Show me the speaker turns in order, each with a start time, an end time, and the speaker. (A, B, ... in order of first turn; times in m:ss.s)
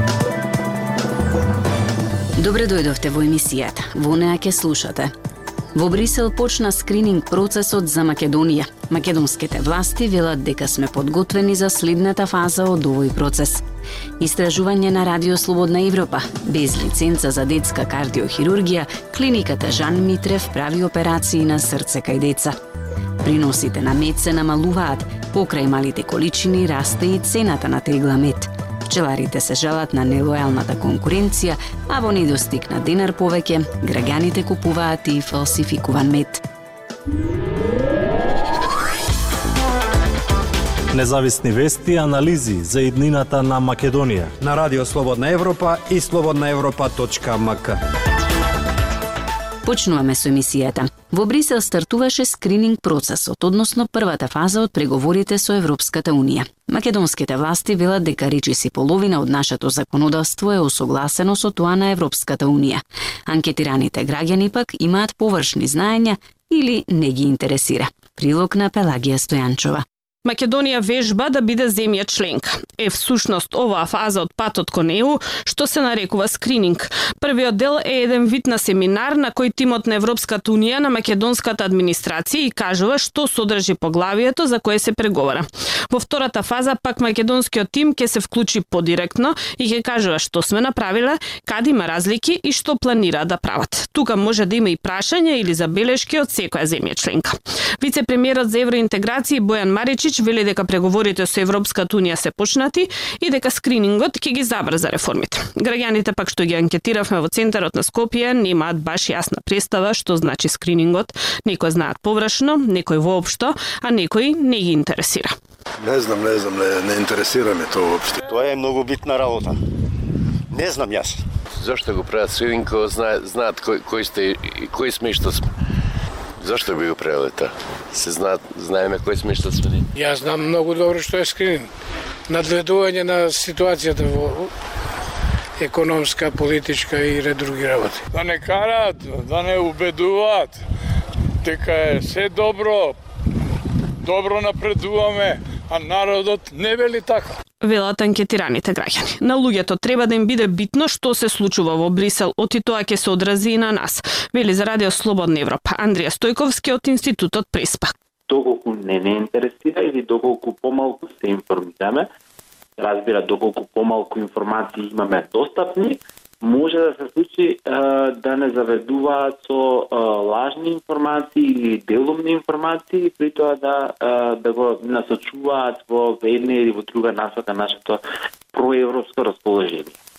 0:02.4-0:05.1 A
0:05.7-0:13.6 A
0:14.2-0:22.5 A
0:23.2-0:36.4 A
0:40.9-0:44.3 B
0:44.4-0:47.8 C
0:49.6-1:09.8 A
1:10.2-1:55.4 D
1:55.8-1:58.2 E
1:58.3-1:59.6 F
2:00.5-2:01.2 F
2:01.5-2:05.4 G
2:06.4-2:09.8 G
2:09.9-2:11.7 H
2:12.3-2:14.5 H
2:15.6-2:18.1 H
2:18.1-2:20.5 I
2:21.4-2:22.9 I
2:24.0-2:27.3 I
2:27.6-2:37.9 D
2:38.3-2:42.1 J
2:42.8-2:58.0 J
2:58.5-3:00.0 J